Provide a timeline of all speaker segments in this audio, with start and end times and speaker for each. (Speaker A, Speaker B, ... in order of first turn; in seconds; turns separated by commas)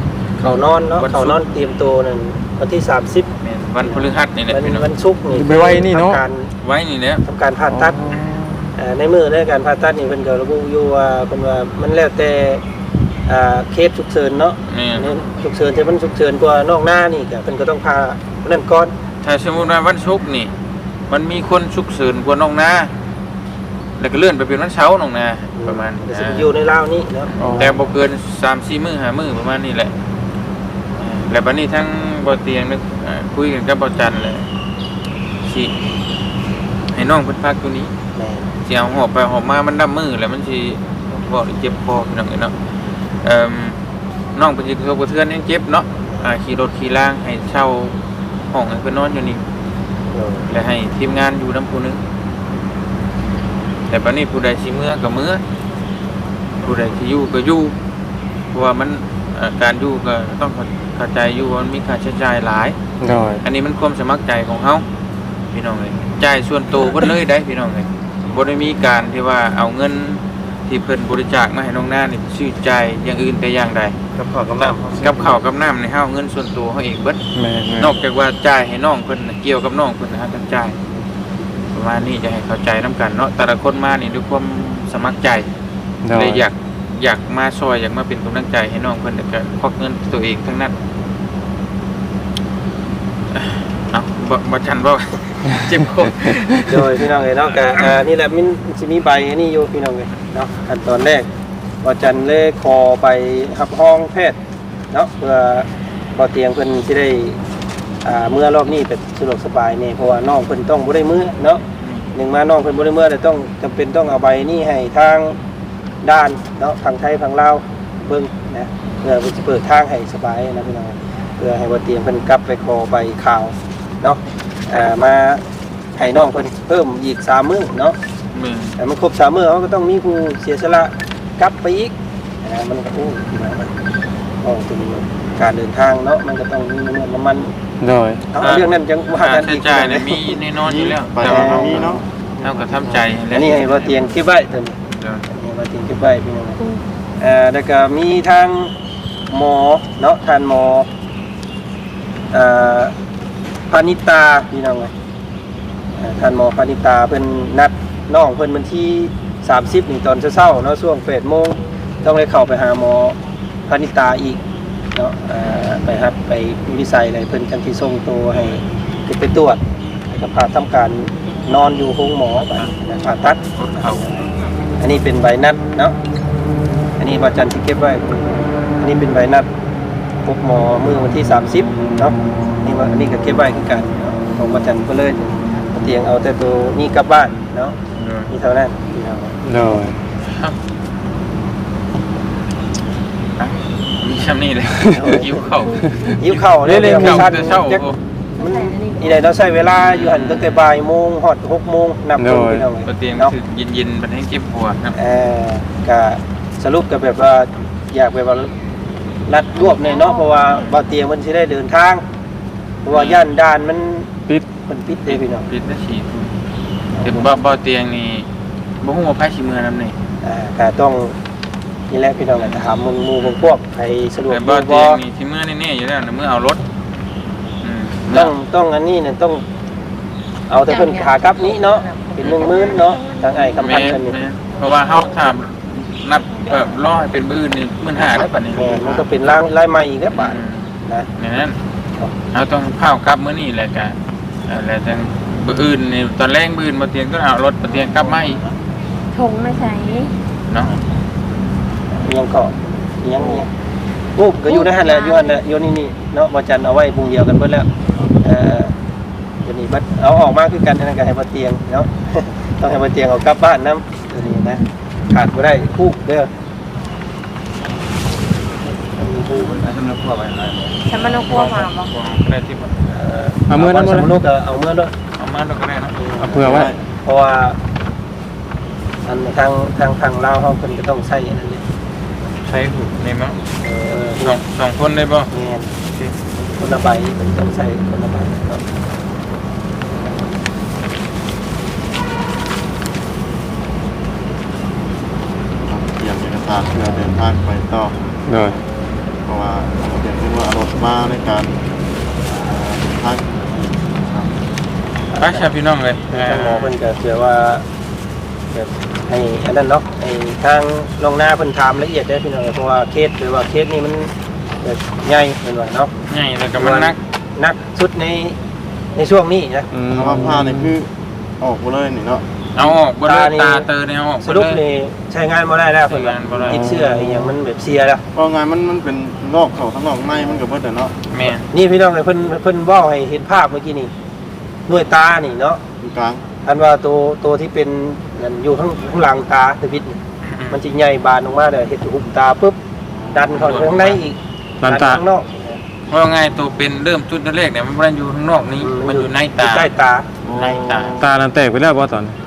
Speaker A: 0.4-3.3, Speaker B: 1.0-1.4, Speaker B: 3.4-4.9, Speaker A: 3.8-6.5, Speaker C: 5.3-6.2, Speaker B: 6.6-7.2, Speaker A: 7.2-8.0, Speaker C: 7.7-8.8, Speaker A: 8.8-12.6, Speaker A: 13.3-18.9, Speaker B: 14.7-15.1, Speaker B: 19.2-20.5, Speaker B: 21.1-22.9, Speaker B: 24.0-26.5, Speaker A: 25.6-27.7, Speaker B: 27.3-29.9, Speaker C: 27.4-27.8, Speaker B: 31.0-34.5, Speaker B: 35.4-35.8, Speaker B: 36.9-37.9, Speaker A: 38.1-38.5, Speaker B: 38.6-42.5, Speaker B: 43.2-43.8, Speaker B: 44.4-49.4, Speaker A: 50.1-50.5, Speaker B: 50.5-52.0, Speaker B: 53.9-55.4, Speaker B: 56.6-57.8, Speaker B: 58.5-62.8, Speaker C: 63.0-63.4, Speaker B: 63.4-64.8, Speaker B: 65.5-74.0, Speaker D: 74.2-75.4, Speaker B: 74.6-77.2, Speaker C: 77.3-78.0, Speaker B: 77.8-80.8, Speaker B: 81.7-85.5, Speaker C: 86.0-86.5, Speaker B: 86.1-90.7, Speaker B: 93.3-96.7, Speaker A: 96.7-101.3, Speaker A: 101.8-104.4, Speaker A: 104.9-107.4, Speaker A: 108.0-111.6, Speaker B: 111.8-112.1, Speaker A: 112.1-115.4, Speaker A: 116.0-125.4, Speaker A: 126.0-128.0, Speaker B: 128.3-128.8, Speaker A: 128.8-133.7, Speaker A: 134.4-137.5, Speaker C: 137.8-138.2, Speaker A: 138.3-140.4, Speaker B: 138.4-141.8, Speaker D: 140.6-143.2, Speaker A: 141.2-142.0, Speaker B: 142.4-144.2, Speaker A: 143.3-144.8, Speaker B: 144.9-145.3, Speaker A: 145.3-146.6, Speaker A: 147.2-148.7, Speaker A: 149.3-150.9, Speaker A: 152.3-152.9, Speaker A: 153.7-154.9, Speaker A: 156.0-164.4, Speaker A: 164.9-174.3, Speaker B: 173.5-174.1, Speaker A: 174.8-176.0, Speaker A: 177.0-179.5, Speaker A: 180.2-187.8, Speaker B: 188.0-188.4, Speaker A: 188.3-189.4, Speaker C: 189.4-190.0, Speaker B: 190.2-190.6, Speaker B: 193.4-195.9, Speaker A: 194.9-195.3, Speaker C: 196.0-197.6, Speaker A: 196.2-197.9, Speaker B: 196.8-198.0, Speaker E: 198.4-199.2, Speaker A: 198.4-203.3, Speaker B: 199.8-200.7, Speaker C: 202.2-202.7, Speaker B: 202.8-205.0, Speaker A: 204.9-208.5, Speaker A: 209.3-212.0, Speaker E: 209.6-210.9, Speaker A: 212.8-214.1, Speaker B: 212.9-213.3, Speaker A: 214.6-215.5, Speaker B: 215.1-216.3, Speaker A: 216.9-217.4, Speaker B: 217.0-218.3, Speaker B: 218.8-220.0, Speaker A: 220.2-221.2, Speaker A: 221.9-225.0, Speaker B: 222.3-223.6, Speaker B: 224.3-226.7, Speaker B: 227.6-228.3, Speaker A: 228.1-229.4, Speaker A: 230.5-234.2, Speaker E: 230.7-234.1, Speaker B: 232.2-232.7, Speaker B: 233.6-239.1, Speaker A: 238.0-241.1, Speaker B: 240.2-241.6, Speaker B: 242.3-248.5, Speaker E: 247.7-248.4, Speaker E: 249.1-250.2, Speaker B: 250.5-250.8, Speaker A: 251.9-253.5, Speaker E: 253.1-253.4, Speaker A: 254.2-257.7, Speaker E: 254.5-255.4, Speaker A: 258.2-258.7, Speaker A: 259.4-266.3, Speaker A: 268.7-269.7, Speaker E: 270.9-271.9, Speaker B: 270.9-273.0, Speaker A: 272.9-274.9, Speaker C: 273.5-274.1, Speaker B: 275.2-276.0, Speaker A: 276.0-277.6, Speaker C: 276.2-276.7, Speaker D: 276.3-276.8, Speaker A: 279.0-281.6, Speaker B: 282.4-283.4, Speaker A: 283.6-284.4, Speaker B: 284.2-285.3, Speaker A: 285.3-285.7, Speaker B: 285.8-286.2, Speaker A: 286.5-288.6, Speaker D: 295.6-298.1, Speaker C: 298.3-298.6, Speaker D: 299.3-301.5, Speaker D: 302.2-304.4, Speaker A: 305.1-305.6, Speaker B: 305.2-306.7, Speaker A: 306.1-307.6, Speaker A: 308.5-315.9, Speaker B: 316.1-317.0, Speaker A: 316.6-318.4, Speaker A: 318.9-320.3, Speaker C: 319.7-320.8, Speaker D: 319.9-322.2, Speaker B: 322.6-324.6, Speaker A: 322.6-323.7, Speaker A: 324.2-328.0, Speaker B: 325.9-326.8, Speaker C: 326.5-327.3, Speaker D: 328.1-330.9, Speaker B: 331.1-331.5, Speaker A: 331.5-333.9, Speaker A: 334.7-335.6, Speaker D: 335.8-336.2, Speaker A: 336.4-340.0, Speaker B: 340.2-340.6, Speaker A: 340.5-342.6, Speaker D: 342.9-343.6, Speaker A: 343.1-345.6, Speaker B: 343.3-344.0, Speaker C: 344.6-345.0, Speaker B: 345.9-349.7, Speaker A: 348.6-350.1, Speaker D: 350.2-351.2, Speaker B: 350.3-351.0, Speaker C: 351.0-352.2